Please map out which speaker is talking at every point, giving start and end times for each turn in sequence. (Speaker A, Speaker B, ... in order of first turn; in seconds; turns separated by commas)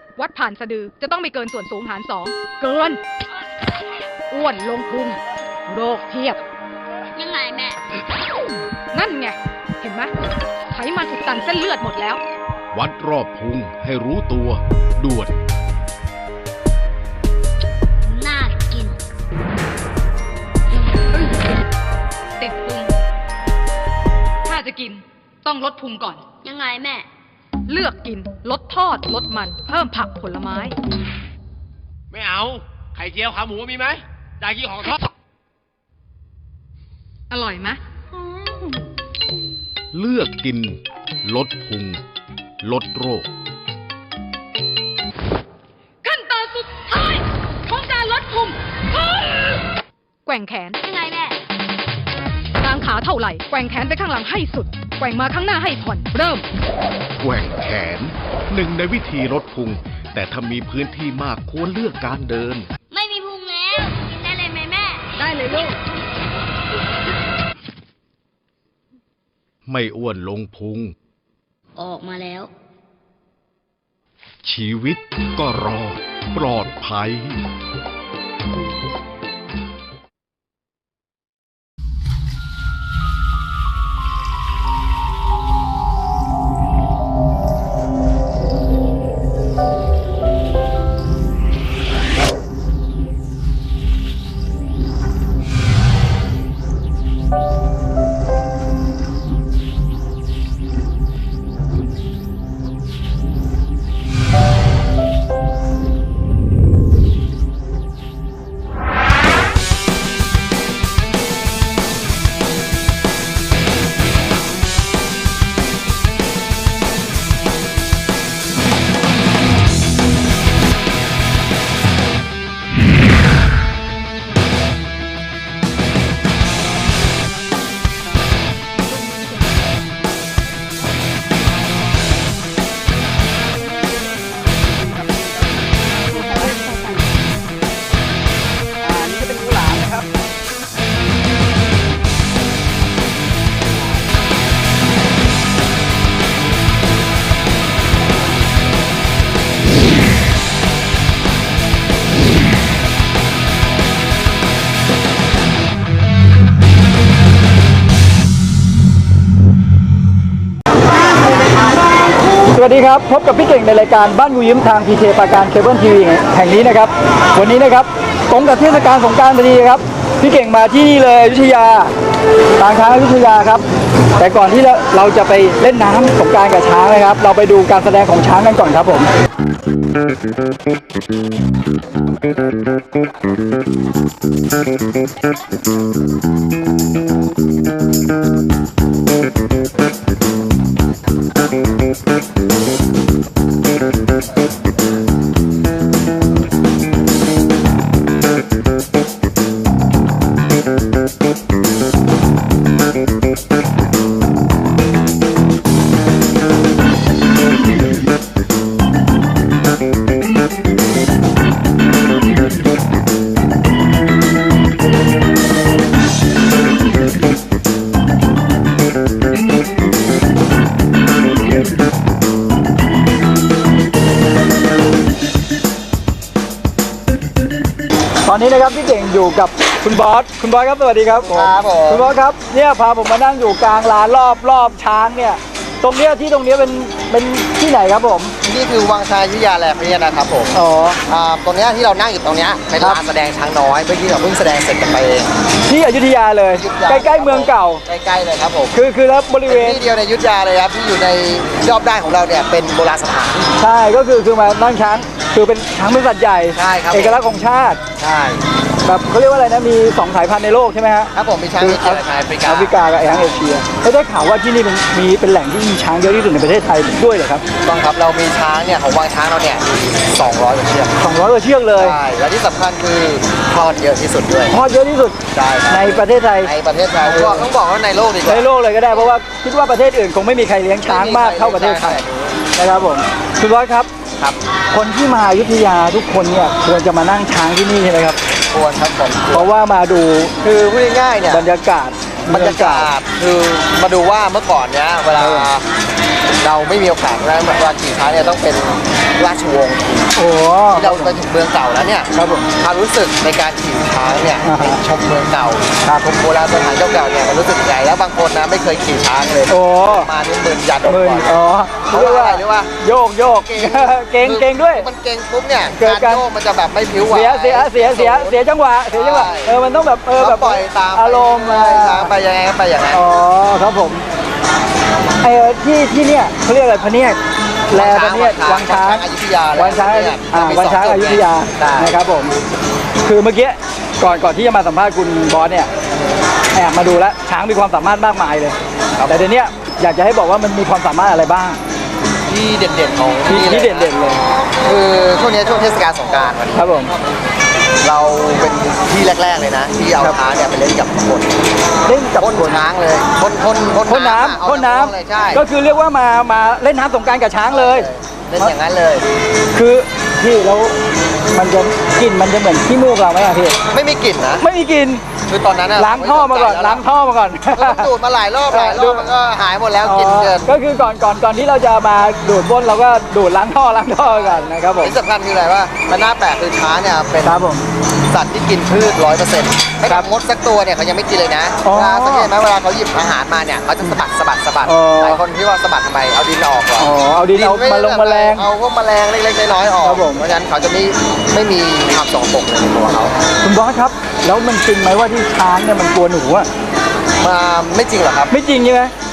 Speaker A: 0.2-3.0, Speaker A: 4.3-6.4, Speaker B: 7.2-7.8, Speaker A: 8.9-10.1, Speaker A: 10.7-12.2, Speaker C: 12.7-15.3, Speaker B: 18.1-19.0, Speaker A: 22.4-22.9, Speaker A: 24.5-26.2, Speaker B: 26.4-27.1, Speaker A: 27.7-30.7, Speaker D: 32.1-35.0, Speaker A: 37.3-37.8, Speaker C: 40.0-40.8, Speaker C: 41.3-41.9, Speaker C: 42.6-43.2, Speaker A: 46.0-49.3, Speaker A: 50.3-50.8, Speaker B: 50.8-51.4, Speaker A: 52.6-56.5, Speaker C: 57.2-62.6, Speaker B: 62.9-65.1, Speaker A: 65.2-65.7, Speaker C: 69.7-70.9, Speaker B: 71.8-72.5, Speaker C: 74.5-77.4, Speaker E: 162.5-171.9, Speaker E: 172.6-173.6, Speaker E: 174.2-179.1, Speaker E: 228.2-238.3, Speaker F: 231.2-232.1, Speaker F: 238.4-245.3, Speaker E: 240.5-241.0, Speaker E: 245.7-247.8, Speaker F: 246.5-248.8, Speaker E: 248.7-249.8, Speaker F: 249.5-253.5, Speaker E: 253.6-257.8, Speaker F: 256.5-257.2, Speaker F: 258.0-258.5, Speaker E: 258.8-267.4, Speaker F: 261.1-263.4, Speaker F: 267.6-271.0, Speaker E: 271.0-272.0, Speaker F: 271.7-274.6, Speaker E: 274.5-275.2, Speaker F: 275.3-278.5, Speaker E: 275.7-276.5, Speaker E: 277.0-277.5, Speaker E: 278.3-282.0, Speaker F: 280.9-282.4, Speaker E: 282.5-283.9, Speaker E: 284.7-288.2, Speaker F: 288.5-289.5, Speaker E: 289.3-290.4, Speaker F: 290.4-291.5, Speaker E: 291.3-292.9, Speaker F: 292.3-295.6, Speaker E: 295.2-295.5, Speaker F: 296.4-300.2, Speaker E: 300.1-301.1, Speaker F: 300.7-312.7, Speaker E: 302.1-302.5, Speaker E: 304.4-304.8, Speaker E: 309.5-310.1, Speaker E: 310.9-314.9, Speaker F: 313.3-319.5, Speaker E: 315.8-316.2, Speaker E: 317.1-322.1, Speaker F: 320.1-323.0, Speaker E: 322.9-324.1, Speaker E: 325.2-327.2, Speaker E: 327.7-329.0, Speaker F: 327.7-332.0, Speaker E: 329.6-332.3, Speaker E: 333.0-335.7, Speaker E: 336.5-338.6, Speaker F: 338.9-339.3, Speaker E: 339.1-341.6, Speaker F: 342.3-343.9, Speaker E: 343.3-344.2, Speaker F: 344.6-346.9, Speaker E: 346.5-346.9, Speaker F: 347.8-351.4, Speaker E: 351.9-352.6, Speaker F: 352.2-355.4, Speaker E: 353.8-357.9, Speaker F: 357.5-359.1, Speaker E: 359.5-360.8, Speaker E: 361.3-363.6, Speaker F: 363.6-364.4, Speaker E: 364.4-365.0, Speaker F: 365.3-366.8, Speaker E: 365.8-367.9, Speaker F: 367.6-370.5, Speaker E: 368.5-369.1, Speaker E: 369.8-374.9, Speaker F: 374.0-377.4, Speaker E: 377.2-377.7, Speaker F: 378.1-393.2, Speaker E: 381.6-382.3, Speaker E: 384.6-385.2, Speaker E: 386.8-388.5, Speaker E: 389.8-390.2, Speaker E: 393.4-396.5, Speaker F: 397.2-398.3, Speaker E: 398.3-398.9